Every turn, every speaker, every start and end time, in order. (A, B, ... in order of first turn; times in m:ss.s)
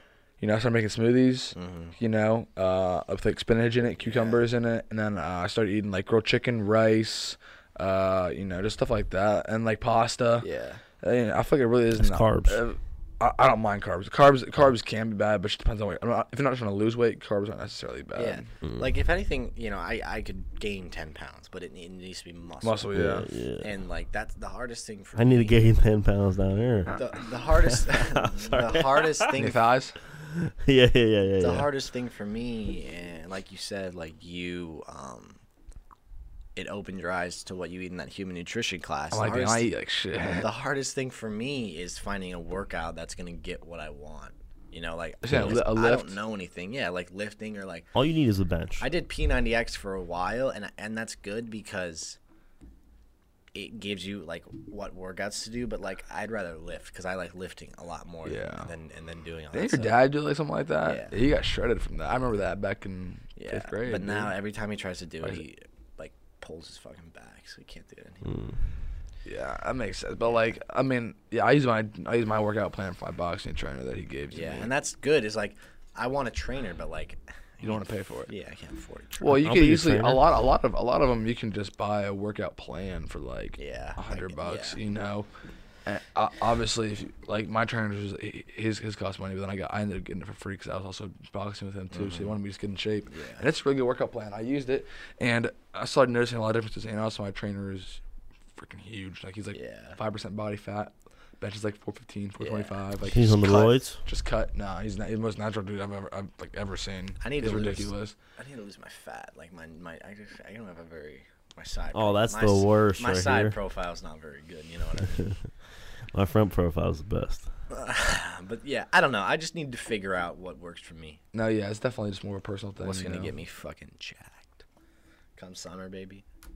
0:00.4-0:10.5 A
0:01.5-0:02.0 B
0:04.0-0:04.4 B
0:10.4-0:10.8 B
0:11.0-0:18.4 A
0:12.0-0:12.6 C
0:18.2-0:23.0 B
0:22.6-0:23.3 A
0:22.9-0:23.7 C
0:23.6-0:25.6 B
0:25.2-0:27.1 C
0:26.9-0:29.6 B
0:27.7-0:29.3 C
0:29.3-0:29.9 A
0:30.1-0:31.7 C
0:31.4-0:35.4 B
0:36.6-0:39.7 B
0:39.1-0:40.5 A
0:40.2-0:47.9 B
0:45.2-0:46.2 A
0:47.9-0:48.9 C
0:48.8-0:52.2 B
0:53.5-1:00.0 B
0:58.2-0:58.7 A
0:59.5-1:04.3 A
1:00.8-1:01.1 B
1:03.4-1:08.3 B
1:08.2-1:08.6 C
1:09.2-1:14.7 A
1:14.3-1:19.4 B
1:17.6-1:18.3 A
1:19.2-1:25.3 A
1:19.3-1:20.2 C
1:23.6-1:24.8 B
1:25.8-1:38.0 A
1:31.9-1:32.4 B
1:33.1-1:33.4 B
1:38.5-1:48.2 A
1:39.5-1:40.0 B
1:42.4-1:42.8 B
1:43.0-1:44.0 C
1:47.2-1:55.4 B
1:51.9-1:53.6 C
1:55.1-1:55.5 C
1:56.1-1:57.5 C
1:57.7-2:01.2 B
2:01.3-2:03.3 A
2:02.8-2:04.6 B
2:05.4-2:06.2 B